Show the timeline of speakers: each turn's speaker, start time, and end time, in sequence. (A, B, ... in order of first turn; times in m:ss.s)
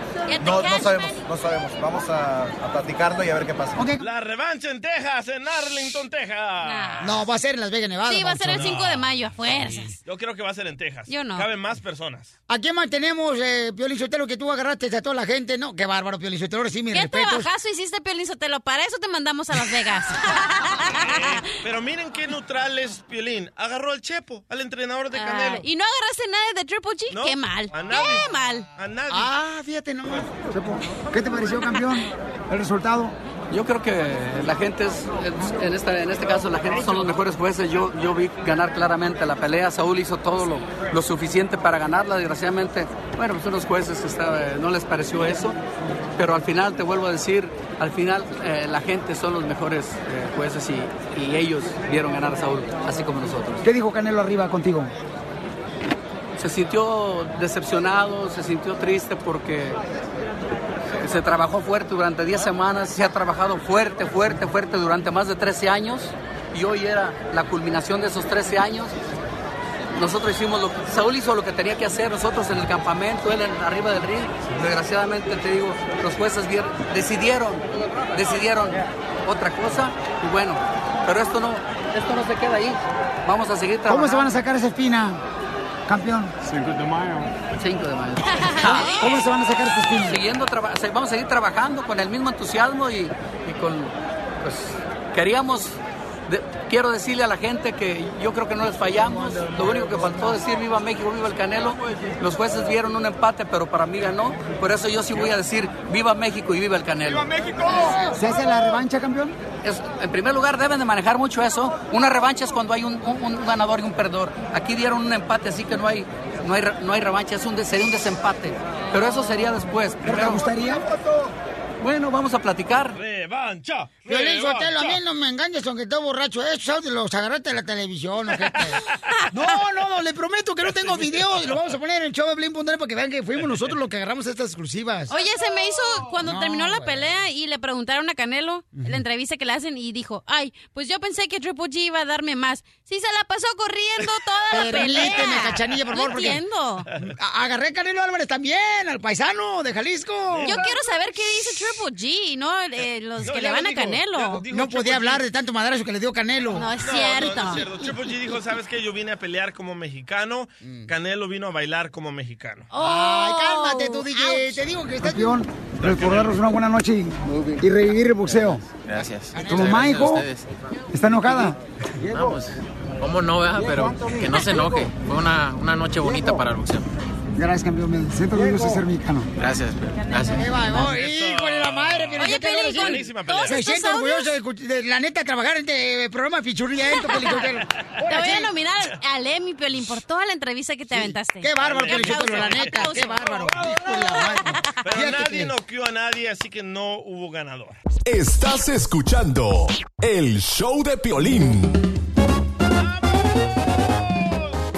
0:00.3-0:01.2 A
0:00.4-0:03.8 B
0:03.7-0:04.0 C
0:04.0-0:07.2 D
0:06.6-0:07.1 A
0:07.0-0:08.7 C
0:08.0-0:10.0 A
0:08.5-0:12.3 D
0:11.1-0:11.5 A
0:12.5-0:17.5 C
0:16.9-0:21.4 A
0:21.0-0:25.6 D
0:25.1-0:28.7 A
0:27.1-0:29.3 D
0:29.1-0:33.2 C
0:33.5-0:45.6 E
0:46.2-0:53.6 E
0:53.6-0:54.9 C
0:56.4-0:59.8 E
1:01.0-1:08.9 E
1:09.9-1:24.3 E
1:23.9-1:25.2 C
1:25.9-1:26.3 C
1:27.6-1:28.9 E
1:28.2-1:29.2 A
1:28.6-1:30.2 C
1:30.0-1:47.3 E
1:48.0-1:49.4 C
1:49.6-2:00.4 E
2:00.0-2:00.8 C
2:01.8-2:03.0 E
2:02.9-2:05.0 D
2:04.1-2:08.8 C
2:08.4-2:08.7 D
2:09.3-2:15.1 C
2:10.6-2:11.6 D
2:15.1-2:26.9 A
2:16.2-2:17.1 C
2:24.5-2:25.3 D
2:24.5-2:26.4 C
2:27.0-2:30.6 C
2:30.3-2:30.8 D
2:30.4-2:34.4 A
2:33.2-2:35.2 D
2:34.4-2:36.7 C
2:36.5-2:37.8 A
2:36.8-2:42.7 D
2:40.6-2:40.9 C
2:42.7-2:44.6 A
2:42.8-2:48.6 C
2:45.8-2:46.4 D
2:48.7-2:50.5 F
2:49.3-2:50.2 C
2:50.9-2:51.6 C
2:52.0-2:56.9 F
2:57.4-2:59.3 C
2:59.4-3:00.9 F
3:00.2-3:08.5 C
3:00.8-3:03.6 D
3:02.2-3:04.3 A
3:06.9-3:07.4 A
3:08.0-3:13.4 A
3:10.9-3:15.5 C
3:11.6-3:13.5 D
3:13.9-3:14.8 A
3:14.8-3:17.8 D
3:18.0-3:21.8 G
3:22.7-3:24.6 D